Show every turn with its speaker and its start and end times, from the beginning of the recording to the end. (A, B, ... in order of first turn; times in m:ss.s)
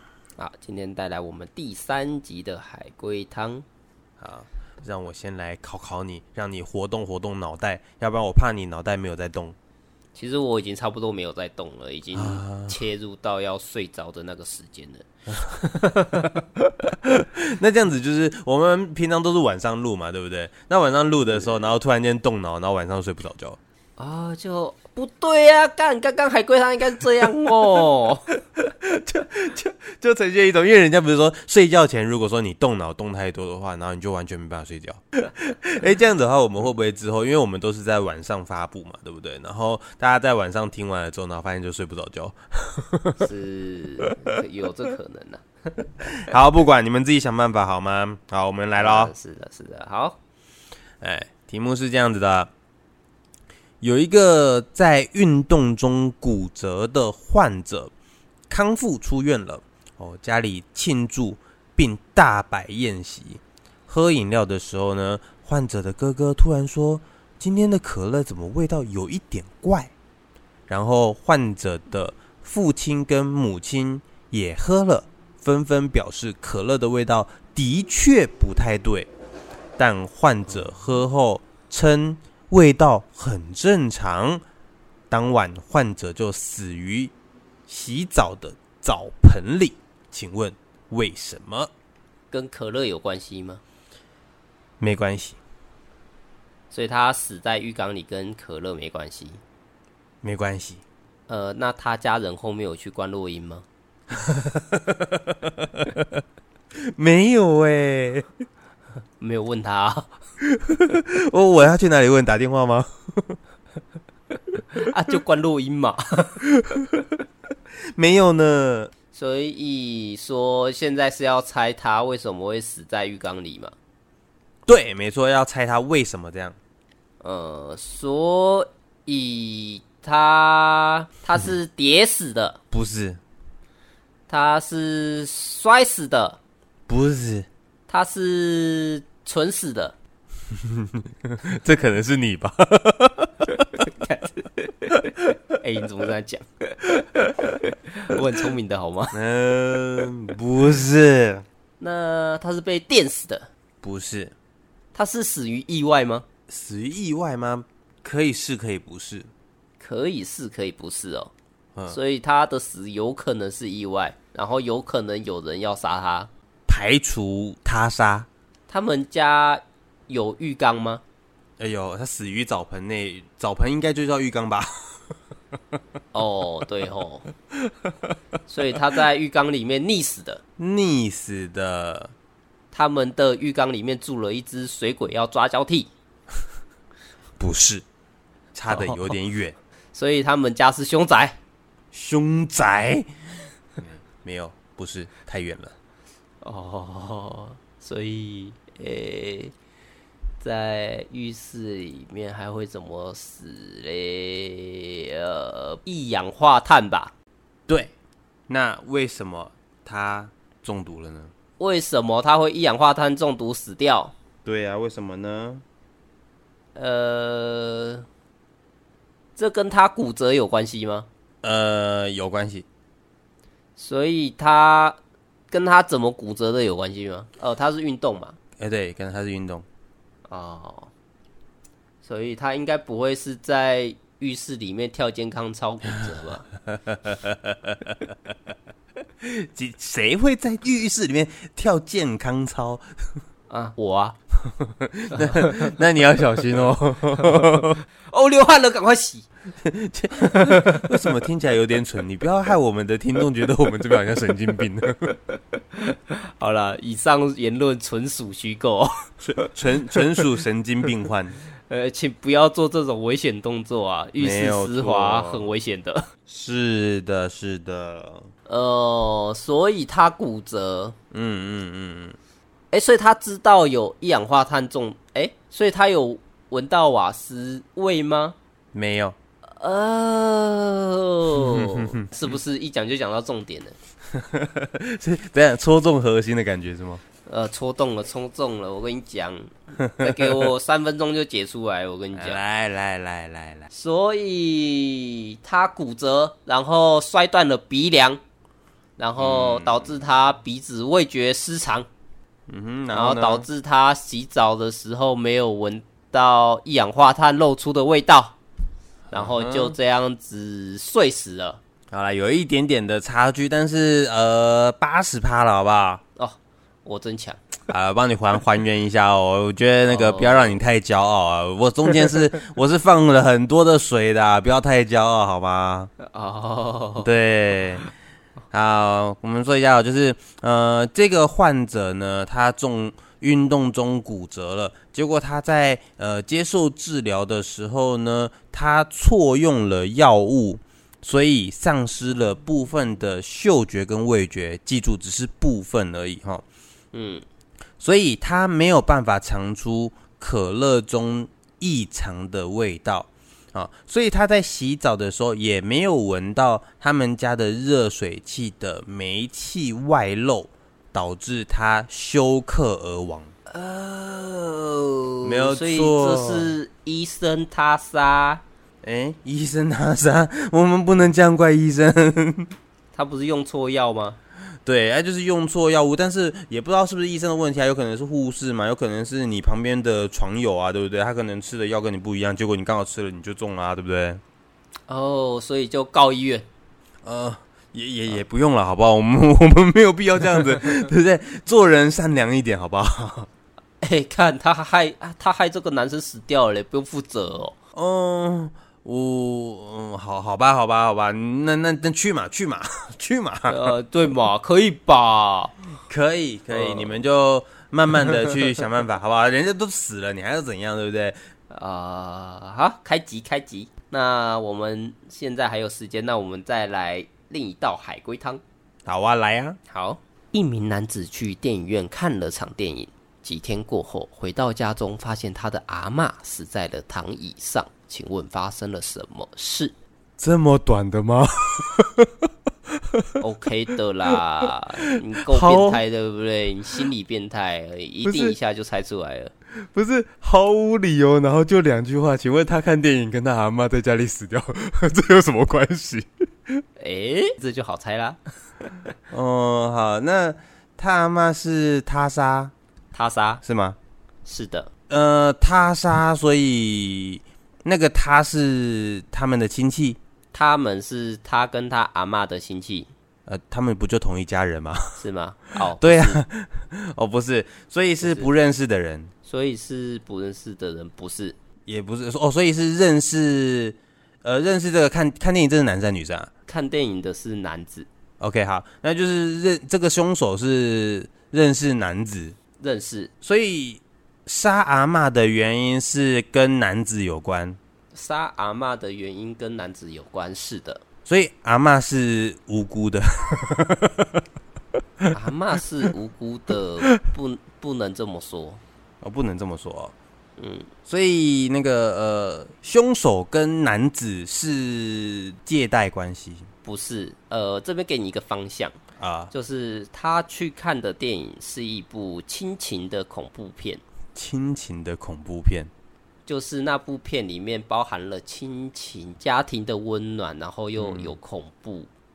0:00.4-0:03.6 A
0:04.2-0:09.5 B
0:10.1-0:16.3 A
0:12.1-0:12.7 B
0:17.0-0:23.6 B
0:24.0-0:28.2 A
0:28.6-0:43.3 B
0:43.2-0:45.4 A
0:46.0-0:49.1 B
0:48.8-0:50.2 A
0:51.0-0:52.5 B
0:53.8-0:57.9 B
0:58.5-1:09.9 B
1:10.7-1:19.1 B
1:19.8-1:24.4 B
1:25.1-1:27.1 B
1:27.7-1:31.7 B
1:32.3-1:33.6 A
1:34.8-1:35.4 B
1:36.7-1:39.4 A
1:40.2-1:40.8 B
1:41.3-1:43.6 A
1:44.2-1:46.1 B
1:46.8-1:48.3 B
1:49.2-1:50.1 A
1:50.4-1:53.4 B
1:54.7-1:56.4 A
1:56.5-1:57.1 B
1:57.9-1:58.9 B
1:59.1-2:03.7 A
2:04.7-2:06.6 B
2:07.2-2:12.6 A
2:12.7-2:13.2 B
2:14.3-2:16.4 A
2:16.9-2:17.5 B
2:17.9-2:19.9 A
2:20.7-2:23.7 B
2:24.0-2:24.9 A
2:25.6-2:29.2 A
2:29.1-2:31.4 B
2:31.8-2:33.5 A
2:33.8-2:34.3 B
2:34.9-2:36.2 A
2:36.5-2:39.3 B
2:39.8-2:41.3 A
2:41.9-2:46.3 A
2:46.7-2:48.3 B
2:48.7-2:51.0 A
2:51.6-2:54.9 B
2:56.1-2:57.3 A
2:58.5-3:00.4 A
3:00.6-3:02.1 B
3:02.7-3:05.9 A
3:07.4-3:07.8 B
3:08.5-3:09.5 B
3:08.7-3:09.1 A
3:09.9-3:11.4 A
3:11.9-3:13.1 B
3:13.8-3:15.7 B
3:16.4-3:19.5 A
3:20.4-3:27.1 A
3:28.5-3:31.3 B
3:31.6-3:34.1 A
3:34.4-3:35.6 B
3:36.7-3:38.0 A
3:39.4-3:41.1 A
3:41.4-3:42.6 B
3:43.8-3:45.0 A
3:45.5-3:48.4 A
3:48.6-3:49.6 B
3:50.3-3:50.9 A
3:52.0-3:56.5 A
3:56.7-3:58.1 B
3:59.2-4:02.8 B
4:03.5-4:04.2 A
4:04.5-4:07.8 B
4:05.1-4:05.7 A
4:07.2-4:09.3 A
4:09.6-4:15.1 B
4:10.5-4:10.8 A
4:15.3-4:19.5 A
4:19.2-4:21.4 B
4:21.7-4:26.1 A
4:24.2-4:25.5 B
4:26.3-4:28.3 B
4:28.5-4:31.0 A
4:31.1-4:32.2 B
4:32.7-4:38.4 A
4:38.7-4:39.2 B
4:39.6-4:43.7 A
4:44.1-4:47.0 B
4:47.2-4:52.4 A
4:49.8-4:50.2 B
4:52.2-4:53.7 B
4:53.7-4:58.2 A
4:59.0-5:01.9 A
4:59.2-5:00.0 B
5:02.5-5:03.5 B
5:02.9-5:08.3 A
5:09.1-5:09.8 B
5:09.1-5:11.6 A
5:11.9-5:16.0 B
5:16.2-5:17.4 A
5:17.7-5:25.9 B
5:19.9-5:20.6 A
5:26.0-5:27.1 A
5:27.0-5:27.9 B
5:28.5-5:46.4 B
5:46.9-5:47.2 A
5:47.8-6:03.3 B
6:03.5-6:08.4 A
6:05.2-6:06.5 B
6:08.8-6:12.5 B
6:12.9-6:14.2 A
6:14.6-6:24.2 B
6:24.9-6:26.4 A
6:27.0-6:33.3 B
6:33.8-6:37.5 A
6:37.7-6:43.7 B
6:43.5-6:45.5 A
6:45.9-6:51.2 B
6:46.5-6:47.0 A
6:51.5-6:58.4 A
6:58.8-6:59.6 B
6:59.7-7:09.7 A
7:10.2-7:12.1 B
7:13.2-7:19.3 A
7:15.3-7:15.8 B
7:18.0-7:18.3 B
7:19.6-7:26.5 B
7:26.8-7:28.2 A
7:29.1-7:32.5 B
7:32.9-7:33.4 A
7:33.4-7:33.8 B
7:34.2-7:34.7 A
7:34.9-7:40.0 B
7:40.3-7:42.9 A
7:43.3-7:45.0 B
7:45.0-7:46.2 A
7:45.8-7:49.1 B
7:48.0-7:48.3 A
7:49.2-7:51.4 A
7:51.7-7:56.3 B
7:56.5-7:57.9 A
7:58.2-8:02.4 B
8:02.6-8:03.1 A
8:03.2-8:07.6 B
8:07.9-8:10.8 A
8:11.0-8:14.1 B
8:15.1-8:18.6 A
8:19.0-8:19.9 B
8:20.4-8:20.7 A
8:20.9-8:26.5 B
8:26.6-8:28.8 A
8:29.0-8:29.3 B
8:29.3-8:33.8 A
8:34.1-8:35.7 B
8:36.2-8:41.9 A
8:40.8-8:41.2 B